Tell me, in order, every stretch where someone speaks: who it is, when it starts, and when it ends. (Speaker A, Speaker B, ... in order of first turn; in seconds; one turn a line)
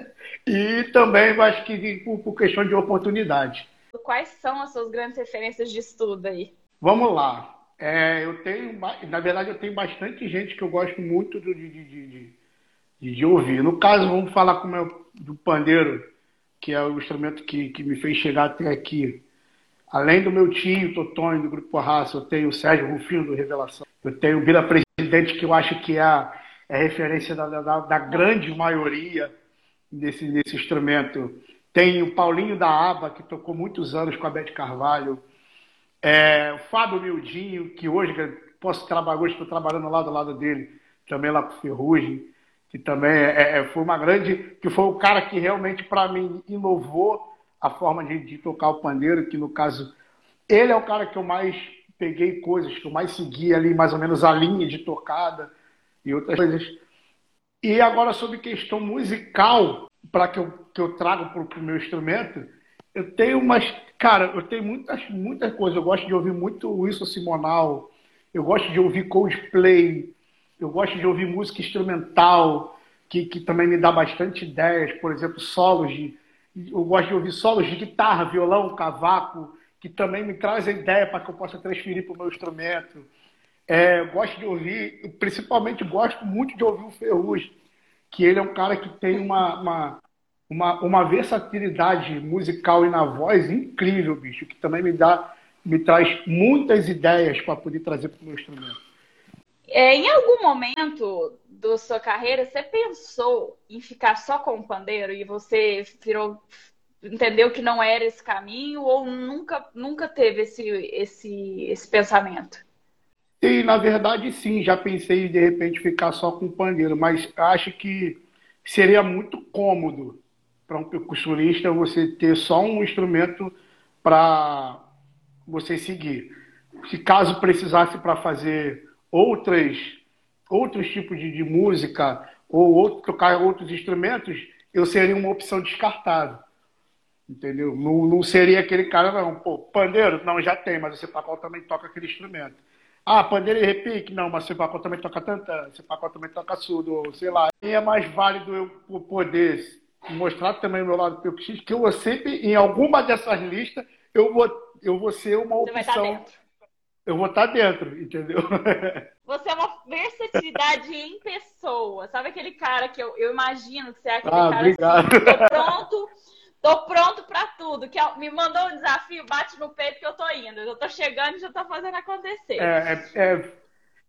Speaker A: 0.5-3.7
Speaker B: 3.9-6.5
Speaker A: 6.8-12.3
Speaker A: 13.0-16.1
Speaker A: 16.6-19.2
Speaker A: 19.9-29.3
Speaker B: 28.1-28.4
Speaker A: 29.9-35.2
Speaker A: 36.0-49.9
Speaker A: 50.5-55.5
Speaker A: 56.0-56.8
Speaker A: 57.6-83.1
Speaker A: 83.7-87.5
Speaker A: 88.1-98.8
Speaker B: 99.7-106.5
Speaker B: 107.0-112.6
Speaker A: 113.4-124.8
Speaker A: 125.5-126.3
Speaker A: 126.9-136.4
Speaker A: 137.3-156.2
Speaker B: 155.6-156.3
Speaker A: 157.1-159.0
Speaker B: 159.3-166.1
Speaker A: 164.2-165.7
Speaker B: 166.6-172.7
Speaker A: 172.6-173.5